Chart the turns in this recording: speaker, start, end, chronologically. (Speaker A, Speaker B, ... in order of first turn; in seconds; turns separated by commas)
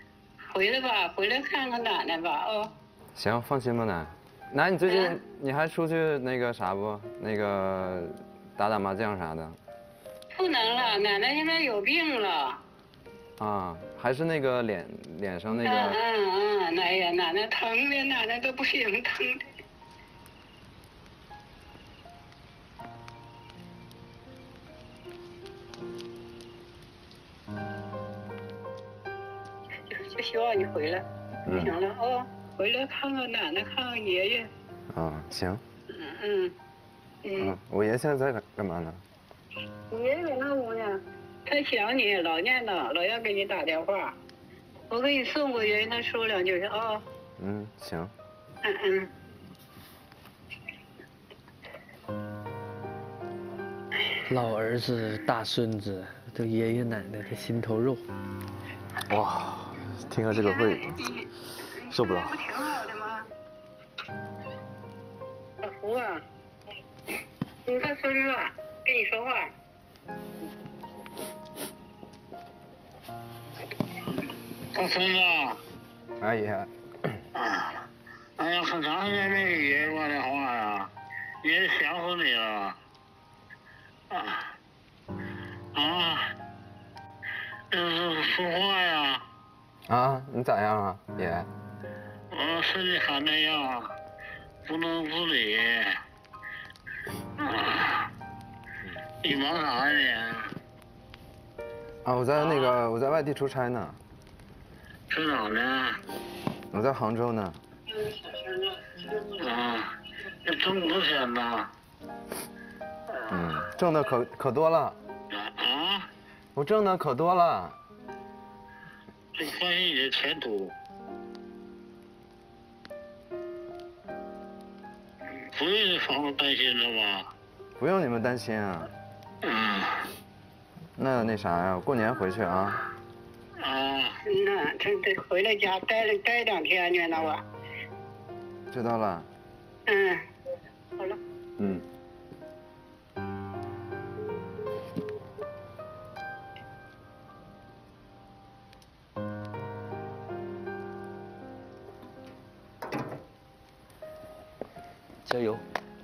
Speaker A: 0.5-2.7, Speaker B: 3.1-9.6, Speaker A: 4.9-5.2, Speaker A: 10.3-12.6, Speaker B: 13.4-16.0, Speaker A: 15.6-19.4, Speaker A: 29.9-34.5, Speaker B: 31.5-31.7, Speaker B: 34.9-35.6, Speaker A: 36.0-36.5, Speaker A: 37.2-37.5, Speaker B: 37.4-39.0, Speaker A: 39.9-44.1, Speaker A: 44.9-47.0, Speaker B: 47.4-48.1, Speaker A: 48.6-49.1, Speaker C: 54.3-58.0, Speaker D: 59.1-60.9, Speaker D: 61.9-62.4, Speaker A: 62.4-63.2, Speaker A: 65.6-66.2, Speaker A: 67.7-69.5, Speaker E: 74.7-75.6, Speaker B: 76.2-76.7, Speaker E: 77.4-77.8, Speaker E: 78.4-80.9, Speaker E: 81.4-82.8, Speaker E: 84.1-84.5, Speaker E: 85.8-86.3, Speaker E: 87.7-89.2, Speaker B: 89.9-91.5, Speaker E: 92.3-93.9, Speaker E: 94.7-96.0, Speaker E: 97.4-98.1, Speaker E: 99.2-100.5, Speaker B: 102.0-104.0, Speaker E: 105.1-106.0, Speaker B: 106.7-107.6, Speaker E: 109.4-109.9, Speaker E: 110.5-111.7, Speaker B: 113.3-115.0, Speaker E: 115.3-116.1, Speaker B: 116.5-117.8, Speaker E: 119.4-120.7, Speaker E: 125.5-127.3, Speaker B: 127.8-128.9, Speaker E: 129.5-130.1, Speaker B: 131.0-132.8, Speaker E: 133.7-134.1, Speaker A: 134.3-137.4, Speaker B: 138.7-139.3, Speaker A: 139.9-140.2, Speaker B: 141.6-141.8